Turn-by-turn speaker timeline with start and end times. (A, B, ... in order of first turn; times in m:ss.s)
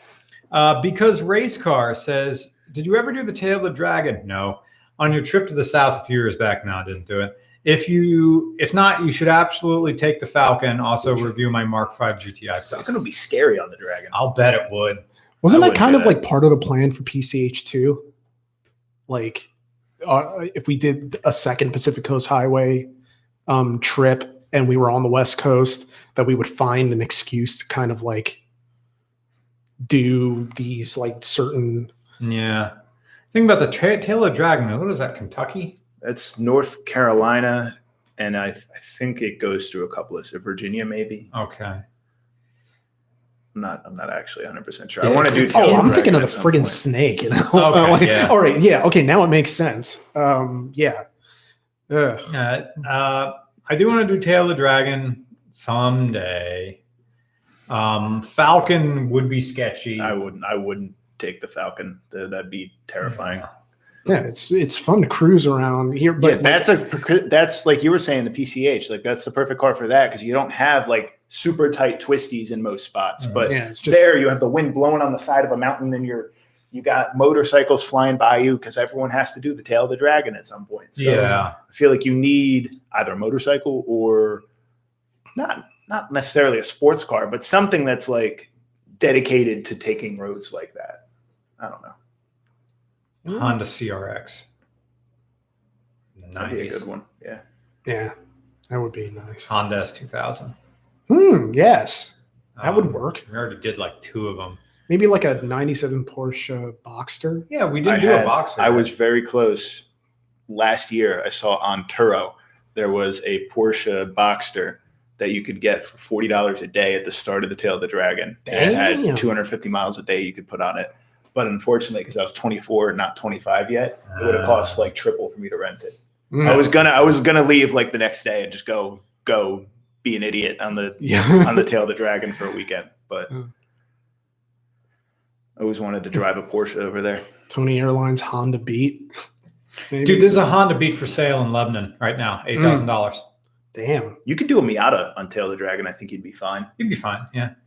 0:00.5-0:12.9 A
0:12.7-0:14.1 B
0:14.1-0:15.0 A
0:15.4-0:18.1 C
0:15.5-0:16.2 B
0:19.1-0:19.5 C
0:20.0-0:22.9 C
0:23.5-0:28.4 C
0:29.8-0:31.9 C
0:32.2-0:32.7 A
0:33.3-0:35.8 A
0:36.0-0:41.3 B
0:41.3-0:41.8 A
0:43.5-0:46.8 B
0:45.0-0:45.9 A
0:45.3-0:51.0 C
0:47.5-0:48.4 A
0:51.9-0:52.2 C
0:52.3-0:56.8 A
0:57.7-1:00.2 A
1:00.0-1:03.5 B
1:04.0-1:07.0 C
1:06.2-1:24.4 B
1:13.5-1:14.0 C
1:21.0-1:21.6 A
1:25.3-1:31.0 B
1:31.6-1:31.9 B
1:33.2-1:33.6 C
1:33.2-1:34.4 A
1:36.2-1:36.8 A
1:36.4-1:37.4 B
1:37.8-1:38.1 C
1:38.7-1:39.5 C
1:39.5-1:40.5 A
1:41.1-1:43.2 C
1:42.6-1:44.6 A
1:44.9-1:47.5 C
1:47.5-1:48.9 A
1:47.8-1:49.8 B
1:50.5-2:13.3 B
1:58.5-1:59.3 C
2:04.2-2:04.7 A
2:06.3-2:06.7 C
2:11.0-2:11.6 C
2:15.6-2:17.2 B
2:17.5-2:19.1 C
2:19.9-2:20.4 C
2:20.0-2:23.2 A
2:22.6-2:22.8 C
2:23.7-2:24.2 C
2:24.2-2:26.7 B
2:26.8-2:27.5 A